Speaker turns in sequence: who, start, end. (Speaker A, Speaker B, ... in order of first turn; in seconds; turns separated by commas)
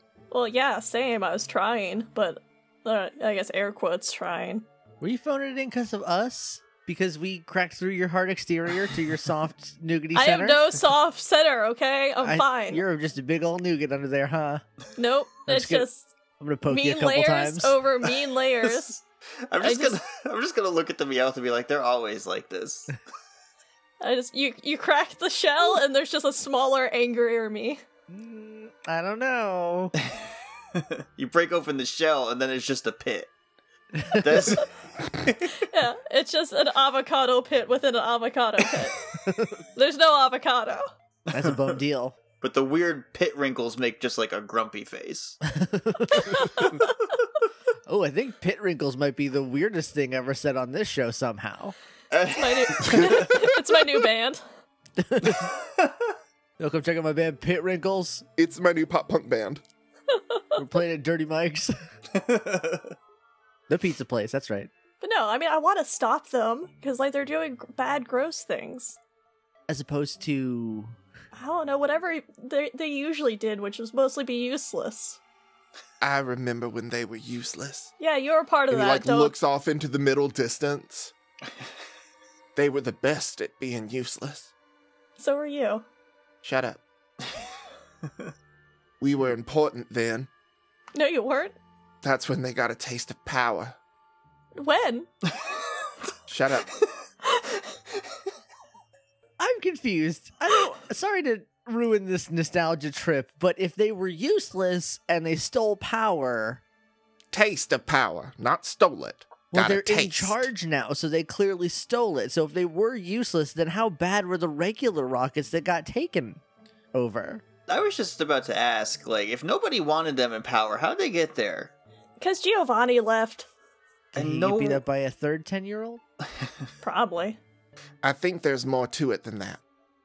Speaker A: 0.3-4.6, Speaker B: 5.0-10.6, Speaker A: 10.1-12.8, Speaker B: 12.2-14.6, Speaker A: 15.0-16.1, Speaker B: 15.5-15.9, Speaker B: 16.4-17.8, Speaker A: 16.7-19.0, Speaker C: 18.6-18.9, Speaker C: 19.5-23.0, Speaker A: 19.6-20.0, Speaker A: 24.0-27.8, Speaker B: 28.1-29.9, Speaker C: 30.7-33.3, Speaker B: 33.9-34.6, Speaker C: 34.2-35.7, Speaker A: 35.6-39.0, Speaker B: 39.2-39.6, Speaker A: 39.7-40.9, Speaker C: 41.3-41.8, Speaker B: 41.3-42.1, Speaker C: 42.4-45.4, Speaker B: 45.4-46.8, Speaker A: 46.1-46.9, Speaker B: 47.9-51.7, Speaker C: 52.1-53.5, Speaker A: 52.3-54.4, Speaker B: 55.0-55.5, Speaker C: 55.5-56.1, Speaker B: 56.6-58.2, Speaker D: 58.4-59.6, Speaker A: 60.1-60.5, Speaker B: 60.5-61.8, Speaker C: 62.1-62.9, Speaker B: 63.7-64.7, Speaker A: 65.0-69.0, Speaker B: 69.7-70.9, Speaker A: 71.3-75.2, Speaker D: 76.0-77.9, Speaker A: 78.0-79.3, Speaker D: 78.7-81.1, Speaker D: 82.5-84.5, Speaker A: 85.2-85.8, Speaker D: 86.4-86.8, Speaker D: 89.0-90.3, Speaker A: 90.9-91.5, Speaker D: 92.0-93.8, Speaker A: 94.5-95.1, Speaker D: 96.3-96.7, Speaker B: 99.4-106.6, Speaker D: 107.3-110.5, Speaker B: 109.5-116.4, Speaker B: 116.9-117.4, Speaker C: 117.7-121.7, Speaker A: 122.2-123.5, Speaker B: 124.1-126.0, Speaker C: 124.2-124.8, Speaker A: 126.8-127.4, Speaker D: 128.0-129.6